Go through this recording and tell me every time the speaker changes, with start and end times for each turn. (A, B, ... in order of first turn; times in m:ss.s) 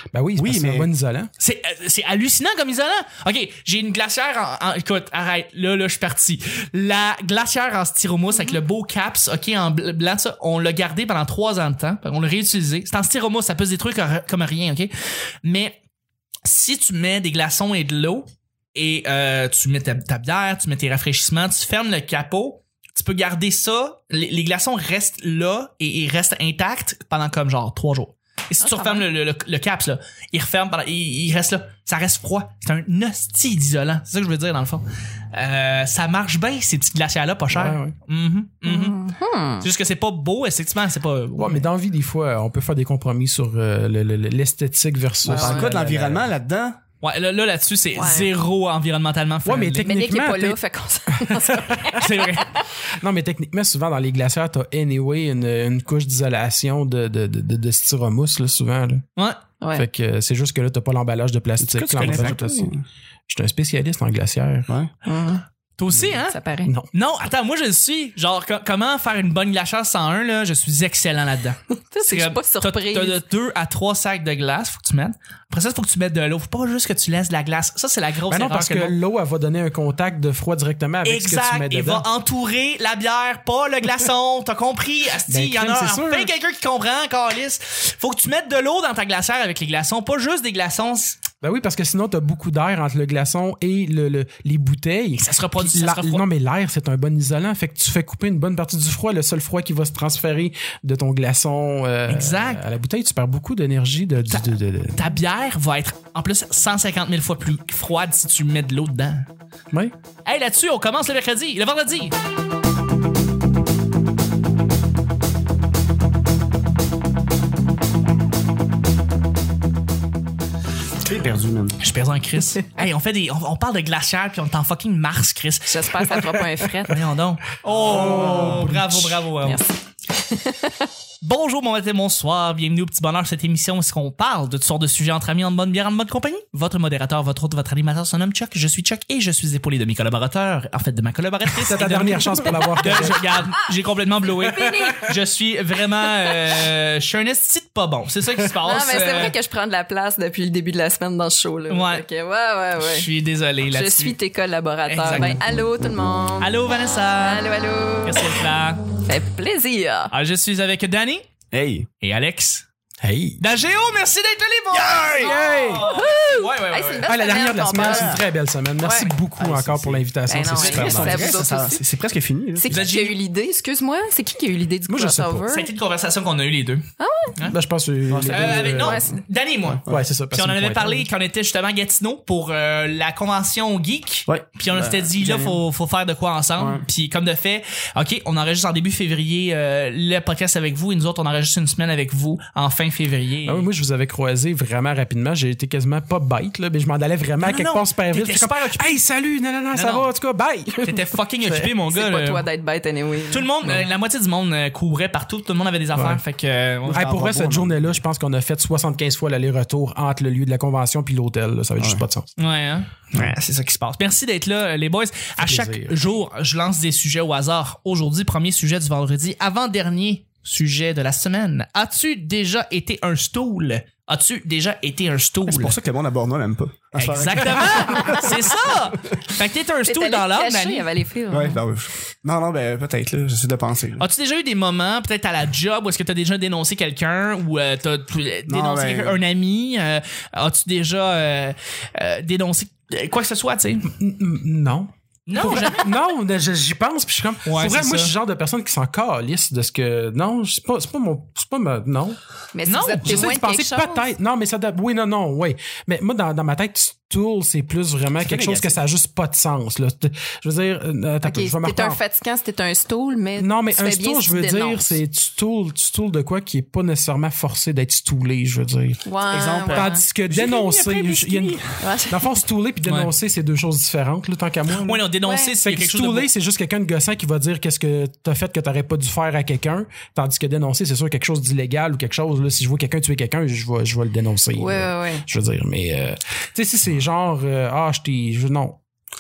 0:00.1-0:01.3 A
0:00.4-0:00.9 B
0:01.4-0:14.9 C
0:15.4-0:15.8 C
0:16.4-0:39.1 C
0:28.6-0:29.1 D
0:37.5-0:38.0 A
0:38.6-0:39.7 D
0:39.6-0:41.7 C
0:41.4-0:46.3 A
0:45.2-0:46.8 B
0:45.3-0:45.7 D
0:47.0-0:49.9 C
0:48.0-0:48.3 D
0:49.4-0:50.6 A
0:49.8-0:52.6 D
0:51.1-0:52.0 A
0:51.9-0:52.5 C
0:53.0-0:59.1 A
0:59.7-1:02.7 A
1:01.6-1:02.8 B
1:02.0-1:02.3 C
1:03.3-1:04.7 A
1:05.0-1:05.4 D
1:05.8-1:06.4 C
1:06.3-1:06.7 D
1:06.6-1:06.9 A
1:06.9-1:19.0 C
1:11.9-1:13.2 D
1:18.3-1:22.0 A
1:21.0-1:31.2 C
1:25.3-1:26.3 A
1:31.4-1:45.1 A
1:35.2-1:36.2 C
1:42.1-1:42.6 C
1:44.3-1:49.3 C
1:50.2-1:52.1 C
2:01.0-2:01.8 B
2:01.8-2:06.3 C
2:05.7-2:07.0 D
2:06.8-2:09.6 C
2:07.7-2:08.7 B
2:07.8-2:09.3 A
2:09.4-2:10.9 D
2:11.2-2:29.4 C
2:21.6-2:23.2 A
2:24.3-2:25.2 D
2:28.6-2:33.1 D
2:31.7-2:32.0 C
2:32.8-2:34.2 C
2:33.7-2:38.4 D
2:34.9-2:35.4 C
2:36.4-2:37.5 C
2:38.0-2:38.9 C
2:39.0-2:40.1 D
2:40.1-2:41.2 C
2:41.5-2:41.9 B
2:42.0-2:42.6 C
2:43.0-2:43.4 A
2:43.4-2:47.1 C
2:44.7-2:45.6 B
2:45.2-2:45.9 A
2:45.3-2:48.2 D
2:47.0-2:51.4 A
2:47.8-2:48.2 B
2:48.8-2:49.1 D
2:49.4-2:52.8 B
2:50.3-2:51.8 D
2:52.6-2:55.7 D
2:52.7-2:53.2 C
2:54.9-2:55.5 A
2:55.5-2:57.6 C
2:57.0-2:57.4 D
2:57.5-2:59.0 A
2:58.1-2:58.9 B
2:58.3-2:59.8 C
2:58.8-2:59.2 D
2:59.7-3:00.0 B
2:59.9-3:01.1 A
3:00.3-3:13.7 C
3:04.3-3:05.6 B
3:06.6-3:06.8 B
3:13.4-3:21.7 A
3:17.4-3:19.0 C
3:19.7-3:20.1 C
3:20.8-3:22.5 C
3:21.9-3:23.5 D
3:23.3-3:27.1 C
3:25.9-3:26.2 A
3:26.8-3:27.9 B
3:27.0-3:32.3 A
3:32.4-3:45.8 C
3:35.4-3:36.0 A
3:45.4-3:48.9 B
3:47.0-3:50.9 C
3:49.8-3:51.6 D
3:51.3-3:54.0 B
3:54.0-4:03.9 C
3:58.5-3:59.2 B
4:03.9-4:12.2 A
4:05.3-4:05.9 C
4:07.4-4:08.1 C
4:12.5-4:14.1 D
4:12.7-4:13.3 C
4:13.0-4:22.0 A
4:18.2-4:18.8 B
4:21.2-4:25.0 D
4:23.4-4:29.0 A
4:29.0-4:30.0 D
4:29.3-4:31.8 B
4:29.6-4:48.8 A
4:31.8-4:32.3 D
4:32.8-4:33.1 C
4:34.7-4:36.3 C
4:35.2-4:35.5 D
4:44.6-4:45.3 D